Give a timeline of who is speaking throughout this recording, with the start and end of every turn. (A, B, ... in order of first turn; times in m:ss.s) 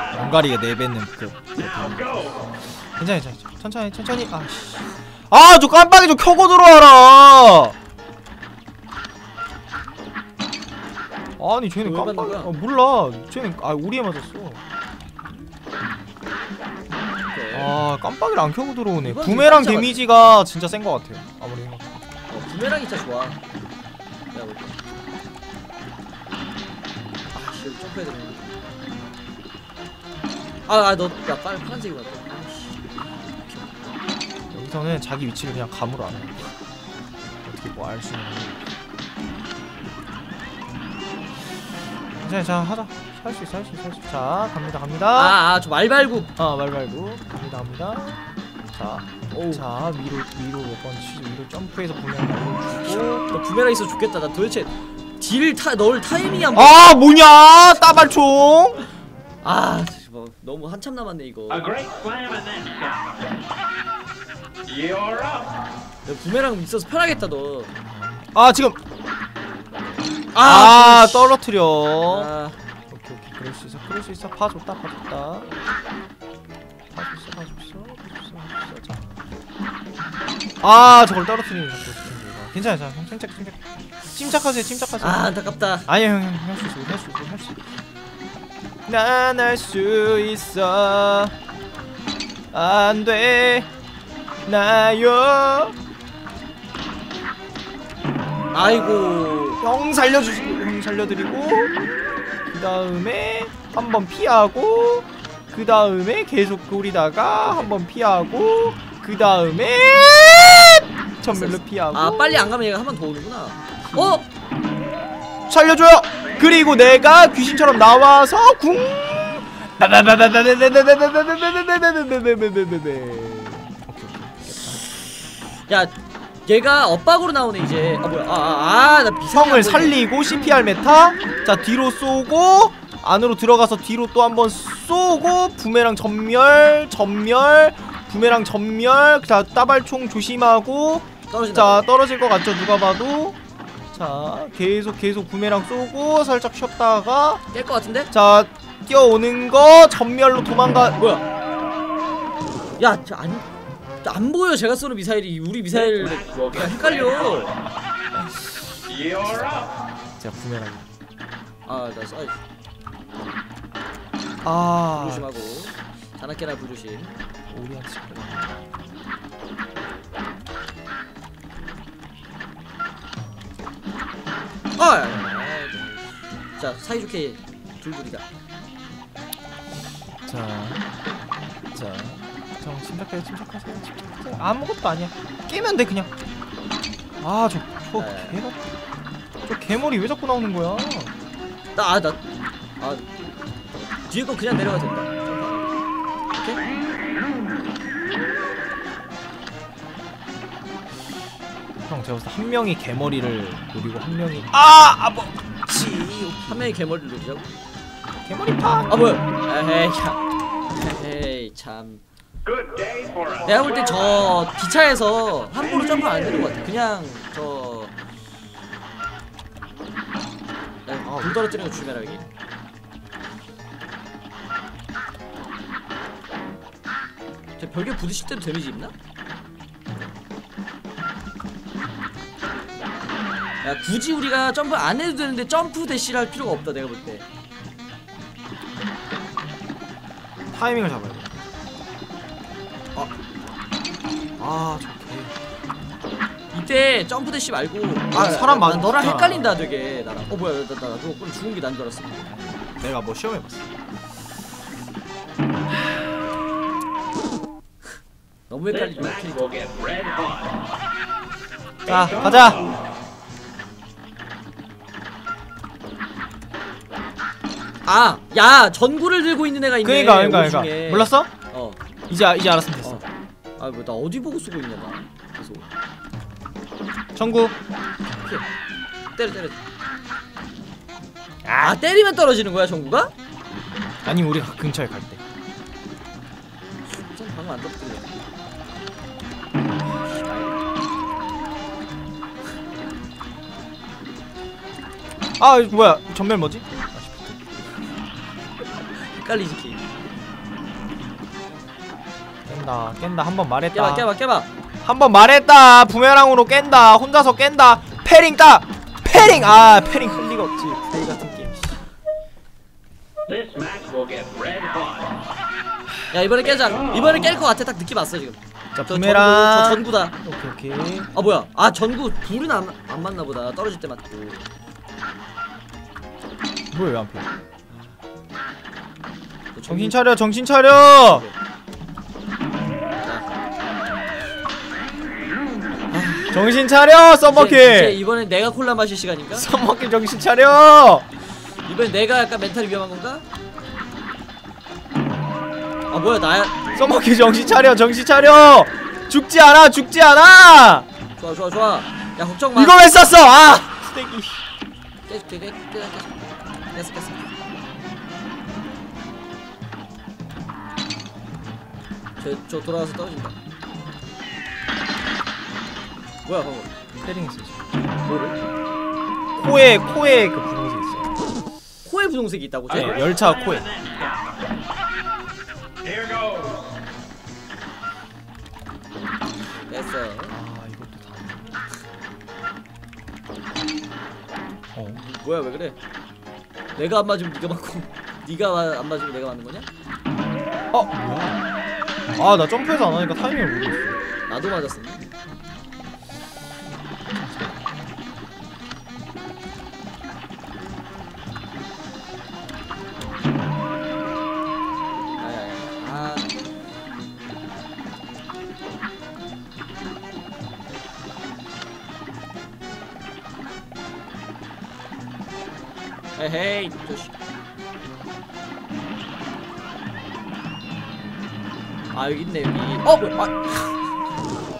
0:00.1-0:07.8 A
0:11.4-0:14.6 A
0:11.8-0:12.5 B
0:17.3-0:17.7 B
0:17.5-0:22.0 A
0:19.0-0:20.0 B
0:22.3-0:23.4 B
0:24.3-0:24.8 B
0:27.3-0:28.5 B
0:30.7-0:34.0 B
0:34.5-0:36.5 A
0:37.4-0:38.7 A
0:42.2-0:45.4 A
0:45.2-0:46.3 B
0:46.4-0:53.3 A
0:49.3-0:49.6 B
0:52.8-0:56.9 B
0:56.6-0:58.8 A
0:59.4-1:01.8 B
1:06.1-1:07.7 B
1:07.8-1:08.8 A
1:10.3-1:11.4 B
1:10.4-1:12.3 A
1:12.1-1:12.6 B
1:12.9-1:15.6 A
1:16.9-1:19.2 A
1:20.6-1:23.6 A
1:24.1-1:25.3 A
1:25.0-1:25.9 B
1:25.9-1:27.6 A
1:28.9-1:31.3 A
1:32.5-1:33.7 A
1:34.4-1:35.8 A
1:38.5-1:39.6 B
1:38.7-1:41.8 A
1:42.5-1:52.5 A
1:51.3-1:54.2 B
1:53.9-1:54.2 A
1:55.5-2:04.8 A
2:05.7-2:05.9 B
2:06.5-2:10.0 B
2:09.3-2:23.4 A
2:21.3-2:21.9 B
2:23.9-2:27.4 A
2:27.5-2:28.1 B
2:28.1-2:31.0 A
2:31.0-2:31.2 B
2:32.8-2:33.5 B
2:34.0-2:37.5 B
2:38.2-2:38.4 A
2:39.0-2:39.7 A
2:40.2-2:40.9 A
2:41.7-2:42.4 B
2:44.4-2:45.4 A
2:44.9-2:47.2 B
2:47.5-2:48.6 A
2:54.8-2:58.2 B
3:00.2-3:00.9 A
3:01.7-3:06.1 A
3:07.2-3:08.6 A
3:08.0-3:08.4 B
3:09.4-3:11.1 A
3:11.8-3:12.2 B
3:12.8-3:13.1 B
3:14.1-3:15.8 B
3:16.3-3:16.6 B
3:21.8-3:26.7 A
3:26.5-3:27.5 B
3:28.2-3:29.2 A
3:28.9-3:30.2 B
3:30.7-3:32.0 B
3:33.4-3:37.9 B
3:40.9-3:42.2 B
3:41.0-3:42.2 A
3:47.6-3:48.9 B
3:53.6-3:57.2 B
4:00.5-4:01.4 A
4:04.4-4:05.3 A
4:06.5-4:12.4 B
4:08.1-4:09.6 A
4:12.3-4:13.7 A
4:18.5-4:19.9 B
4:21.9-4:22.7 A
4:27.9-4:31.8 B
4:29.8-4:31.3 A
4:32.1-4:33.0 A
4:33.6-4:35.7 B
4:37.2-4:37.6 A
4:39.2-4:39.6 B
4:41.4-4:41.8 A
4:41.6-4:43.1 B
4:44.0-4:45.2 A
4:46.9-4:48.3 B
4:50.0-4:50.6 B
4:55.4-4:57.4 A
4:58.7-4:59.8 B
5:02.5-5:04.1 A
5:03.7-5:04.5 B
5:04.8-5:11.8 A
5:16.1-5:20.1 B
5:18.8-5:21.1 A
5:21.1-5:24.4 B
5:26.7-5:27.3 A
5:29.5-5:30.0 B
5:29.7-5:31.3 A
5:35.9-5:36.4 B
5:36.3-5:38.0 A
5:37.3-5:39.5 B
5:39.3-5:41.1 A
5:41.7-5:43.2 B
5:45.9-5:46.6 B
5:46.8-5:50.9 A
5:51.2-5:52.8 B
5:52.6-5:54.4 A
5:55.1-5:57.3 B
6:02.2-6:03.3 B
6:06.3-6:06.8 B
6:07.0-6:07.7 A
6:08.0-6:08.4 B
6:09.4-6:11.1 A
6:11.8-6:13.0 B
6:12.7-6:13.7 A
6:19.7-6:20.4 B
6:20.3-6:21.5 A
6:24.9-6:25.8 B
6:26.8-6:29.7 B
6:30.7-6:31.4 A
6:32.1-6:34.0 A
6:34.3-6:35.1 B
6:37.1-6:37.9 A
6:45.2-6:46.4 B
6:56.2-6:57.1 B
7:01.9-7:03.8 B